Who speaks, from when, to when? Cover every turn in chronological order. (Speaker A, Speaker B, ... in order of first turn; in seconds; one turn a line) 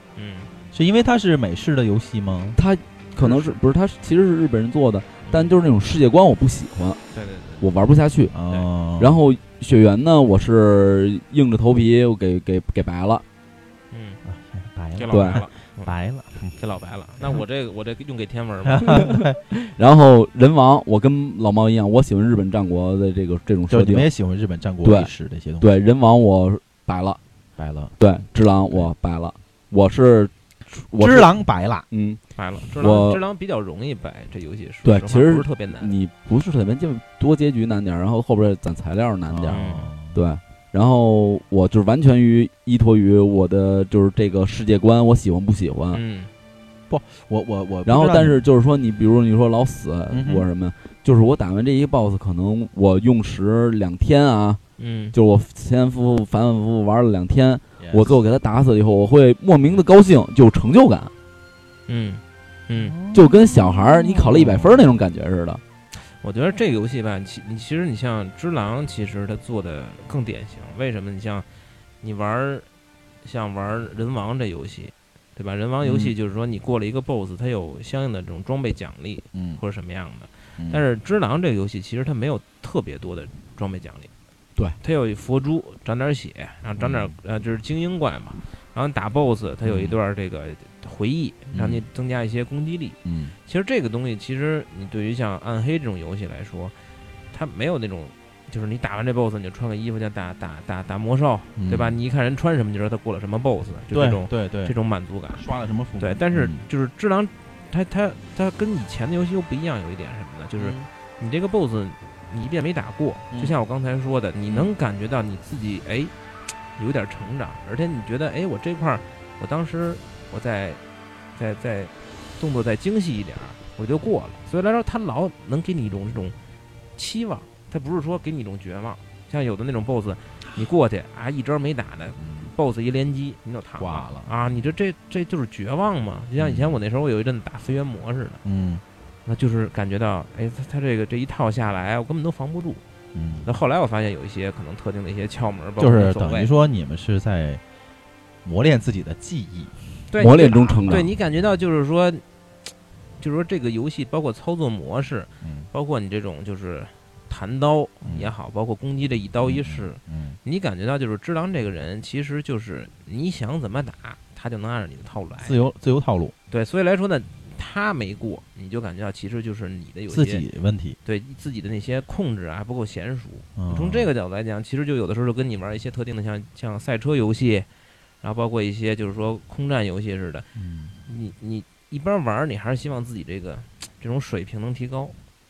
Speaker A: 0.1-0.5
Speaker B: 0.7-2.6
Speaker C: 2.5-7.0
Speaker B: 3.2-3.6
Speaker A: 5.3-5.5
Speaker A: 7.1-7.7
Speaker C: 7.6-8.3
Speaker B: 8.3-9.2
Speaker C: 9.0-13.2
Speaker A: 13.9-14.2
Speaker B: 14.2-16.6
Speaker A: 14.9-15.9
Speaker C: 15.1-15.4
Speaker A: 16.6-19.0
Speaker B: 18.6-19.4
Speaker C: 18.9-24.1
Speaker B: 23.7-25.7
Speaker C: 24.8-27.2
Speaker B: 27.6-28.0
Speaker C: 28.0-31.3
Speaker B: 31.0-31.9
Speaker C: 31.9-32.2
Speaker A: 32.4-35.9
Speaker C: 32.8-33.2
Speaker C: 34.8-46.0
Speaker B: 39.3-40.2
Speaker A: 39.5-39.9
Speaker A: 45.9-46.3
Speaker B: 46.9-48.4
Speaker C: 47.9-54.6
Speaker B: 50.1-50.5
Speaker A: 54.8-55.1
Speaker C: 55.1-61.1
Speaker B: 57.8-58.2
Speaker A: 61.9-63.0
Speaker B: 62.8-64.9
Speaker C: 63.1-65.6
Speaker A: 65.9-71.5
Speaker A: 72.0-72.7
Speaker A: 73.2-84.1
Speaker B: 75.8-76.1
Speaker B: 79.3-79.6
Speaker B: 80.6-80.8
Speaker A: 84.8-96.8
Speaker B: 86.8-87.2
Speaker B: 89.6-90.0
Speaker B: 91.5-91.8
Speaker B: 93.0-93.3
Speaker A: 97.3-105.4
Speaker B: 101.5-102.0
Speaker B: 103.9-104.7
Speaker B: 105.3-106.7
Speaker A: 106.0-116.1
Speaker B: 110.6-110.9
Speaker B: 114.5-114.7
Speaker A: 116.7-120.8
Speaker A: 121.3-126.3
Speaker A: 127.0-138.4
Speaker B: 132.2-132.5
Speaker B: 133.8-134.3
Speaker B: 136.4-136.7
Speaker B: 138.4-138.8
Speaker A: 139.2-142.8
Speaker B: 143.1-143.5
Speaker A: 143.4-146.5
Speaker B: 145.8-147.6
Speaker B: 148.4-149.8
Speaker A: 150.1-152.2
Speaker C: 150.2-151.1
Speaker A: 153.2-165.7
Speaker B: 155.4-155.7
Speaker B: 158.0-158.3
Speaker B: 159.4-160.4
Speaker B: 165.4-166.3
Speaker A: 166.5-170.4
Speaker B: 170.1-171.0
Speaker A: 171.0-177.7
Speaker B: 173.6-174.1
Speaker A: 178.2-180.5
Speaker B: 180.5-181.0
Speaker A: 181.1-185.2